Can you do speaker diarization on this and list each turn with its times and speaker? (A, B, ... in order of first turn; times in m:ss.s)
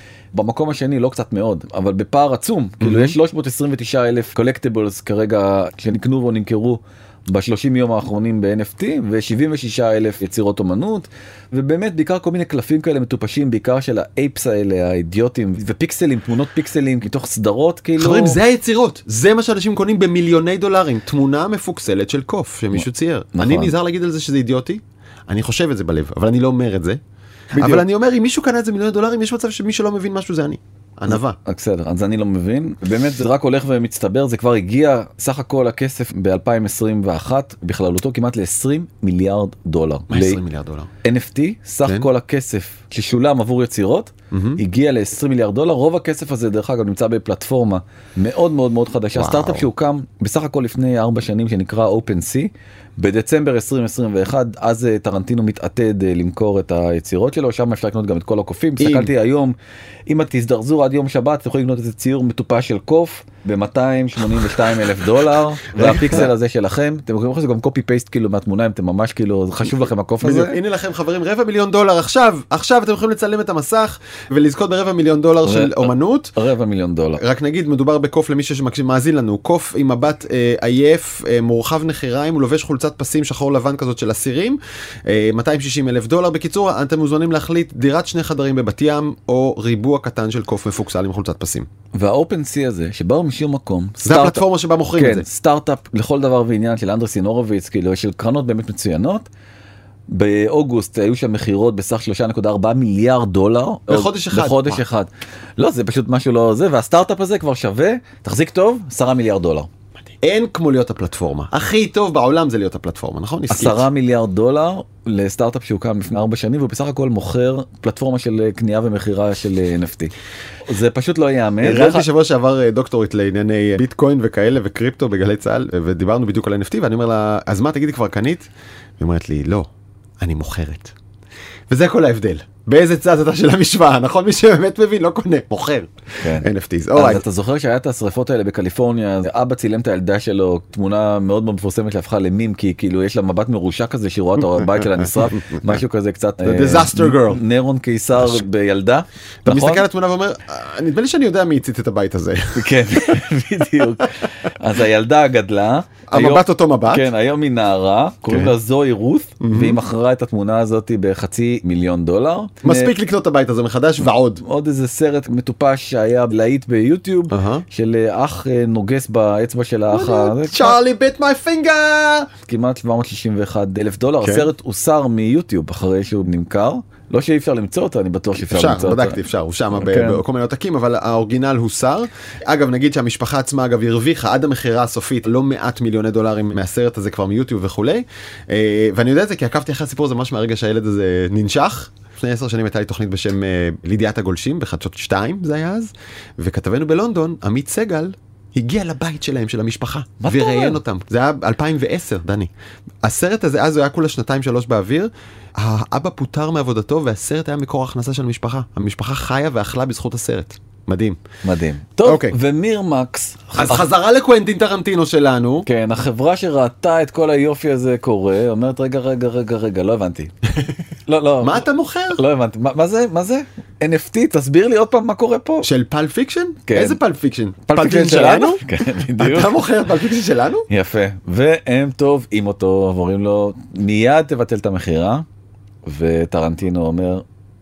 0:00.3-0:18.4 A
0:02.8-0:03.2 B
0:18.0-0:27.0 B
0:22.8-0:23.7 A
0:27.5-0:31.4 B
0:27.6-0:27.8 A
0:31.1-0:40.4 A
0:40.1-0:40.9 B
0:41.0-0:59.6 A
0:44.3-0:44.6 B
0:49.1-0:49.7 B
0:58.8-0:59.1 B
1:00.1-1:10.6 A
1:05.7-1:06.3 B
1:10.2-1:16.4 B
1:15.4-1:17.2 A
1:17.2-1:31.7 B
1:31.9-1:34.4 A
1:34.0-1:35.2 B
1:35.0-1:39.3 A
1:40.1-1:49.7 A
1:43.9-1:44.8 B
1:50.2-1:53.9 B
1:53.5-2:00.1 A
2:00.7-2:02.1 A
2:01.6-2:08.5 B
2:09.0-2:09.7 B
2:10.2-2:11.0 B
2:11.7-2:17.2 B
2:16.2-2:29.9 A
2:25.2-2:25.7 B
2:26.4-2:27.4 B
2:28.2-2:28.4 B
2:29.4-2:32.7 B
2:32.6-2:42.9 A
2:36.1-2:37.1 B
2:38.3-2:38.5 B
2:39.4-2:39.8 B
2:42.6-2:44.4 B
2:44.4-2:50.8 A
2:47.3-2:47.6 B
2:49.9-2:52.3 B
2:52.5-2:59.2 A
2:54.2-2:54.5 B
2:58.4-3:22.5 B
2:59.7-3:00.2 A
3:20.2-3:20.8 A
3:23.0-3:31.2 B
3:31.4-3:33.9 A
3:32.0-3:32.4 B
3:33.6-3:35.7 B
3:35.7-3:40.3 A
3:41.1-3:45.7 A
3:41.4-3:42.2 B
3:45.6-3:48.6 B
3:46.7-3:47.0 A
3:47.7-3:49.6 A
3:49.2-3:50.7 B
3:50.7-3:55.3 A
3:55.9-3:57.2 A